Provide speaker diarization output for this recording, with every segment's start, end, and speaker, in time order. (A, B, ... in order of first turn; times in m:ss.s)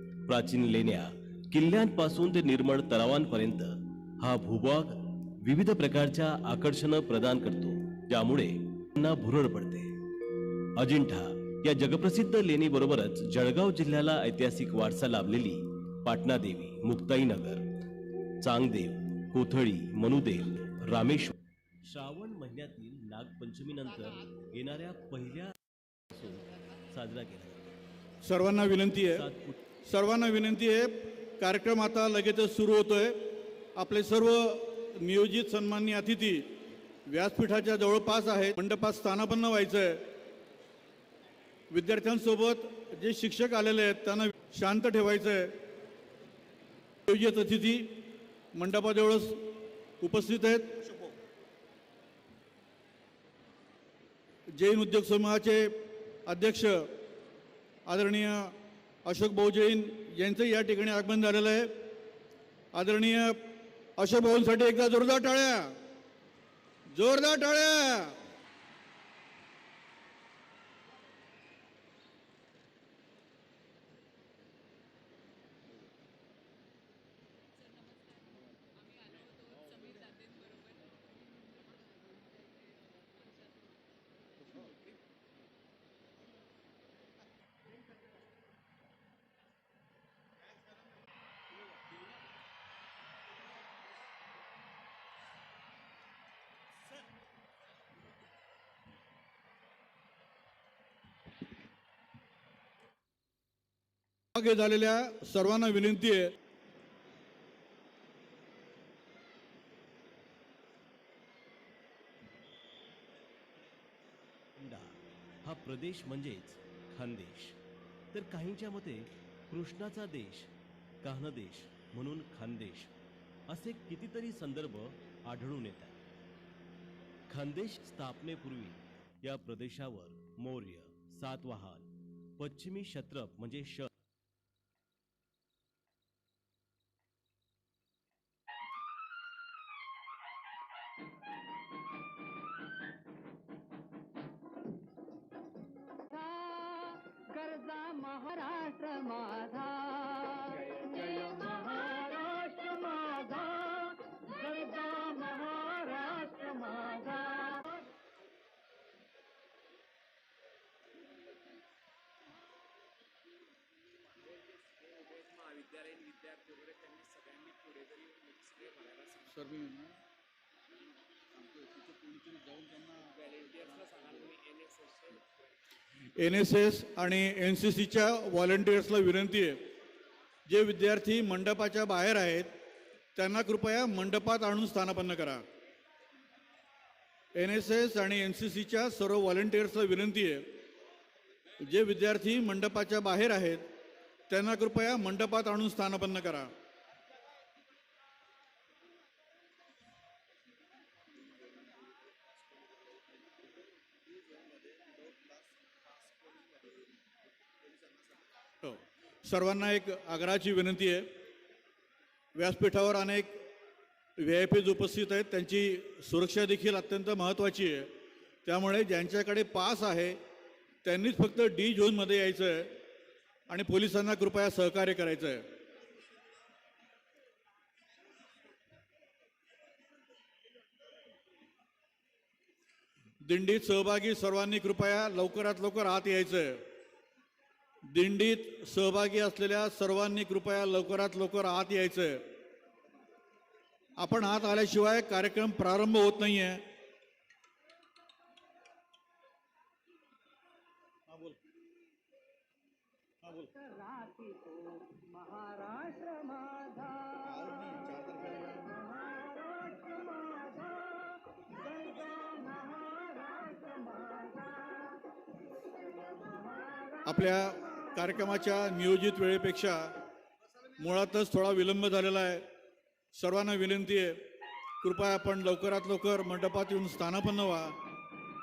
0:00.2-0:10.0 A
0:10.8-0:17.7 A
0:18.4-0:25.5 A
0:26.1-0:27.7 A
0:28.2-0:29.2 B
0:29.1-0:29.6 A
0:29.8-0:36.5 B
0:37.1-0:40.0 B
0:41.7-0:45.6 B
0:47.1-0:51.1 B
0:54.5-0:56.9 B
0:57.8-1:01.8 B
1:02.7-1:05.8 B
1:06.9-1:08.2 B
1:19.7-1:20.4 C
1:44.3-1:46.3 B
1:54.6-1:57.6 A
1:58.1-2:02.9 A
2:03.5-2:06.0 A
2:07.3-2:13.9 A
2:25.9-2:37.8 C
2:44.2-2:49.3 D
2:49.3-2:50.0 B
2:51.4-2:53.2 B
2:53.1-2:55.3 D
2:56.0-2:59.6 B
3:00.4-3:02.5 B
3:03.1-3:05.4 B
3:07.3-3:10.5 B
3:11.6-3:13.6 B
3:14.3-3:16.5 B
3:24.3-3:26.8 D
3:27.8-3:28.1 D
3:28.6-3:31.1 B
3:32.3-3:33.4 B
3:34.2-3:37.9 B
3:38.4-3:40.2 B
3:40.8-3:42.8 B
3:43.5-3:45.4 B
3:53.2-3:56.6 B
3:57.9-4:02.2 B
4:04.0-4:06.6 B
4:11.1-4:11.4 B
4:13.2-4:13.5 B
4:13.5-4:25.0 C
4:17.2-4:18.7 B
4:26.2-4:27.0 C
4:27.0-4:29.9 B
4:30.8-4:32.5 B
4:33.1-4:34.2 B
4:34.8-4:37.7 B